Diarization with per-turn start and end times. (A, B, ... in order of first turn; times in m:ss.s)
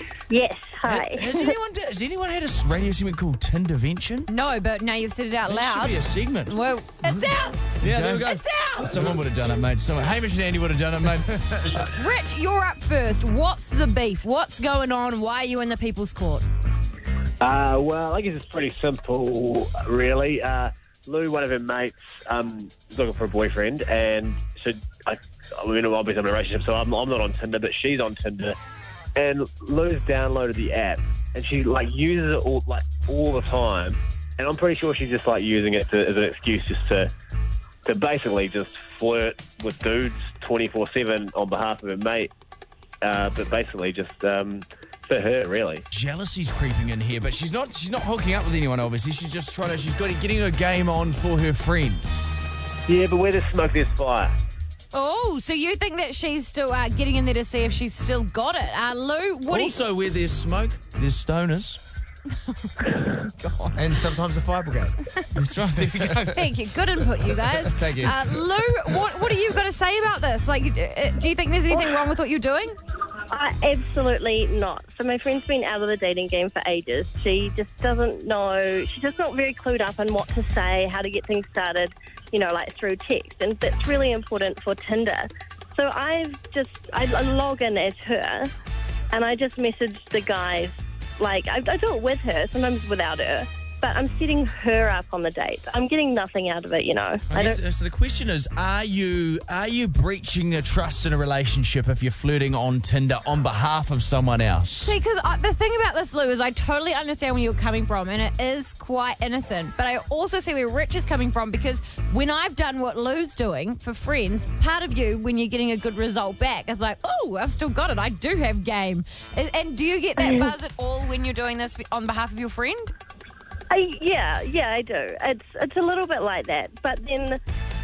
0:00.3-0:01.5 A
0:00.8-0:04.3 B
0:04.3-0:09.0 C
0:05.5-0:06.6 B
0:07.8-0:08.3 D
0:07.8-0:11.8 B
0:11.8-0:16.4 C
0:17.4-0:28.6 E
0:29.2-0:37.1 E
0:37.8-0:42.3 E
0:43.0-0:45.8 E
0:45.9-0:52.0 B
0:52.9-0:54.3 E
0:54.9-0:59.8 C
0:59.5-1:01.8 B
1:02.6-1:03.8 C
1:03.8-1:05.0 D
1:05.3-1:06.4 B
1:05.8-1:06.3 D
1:06.3-1:12.8 C
1:07.2-1:08.3 D
1:13.3-1:28.5 A
1:29.1-1:37.6 A
1:37.3-1:45.0 B
1:44.8-2:02.9 C
2:03.7-2:07.4 A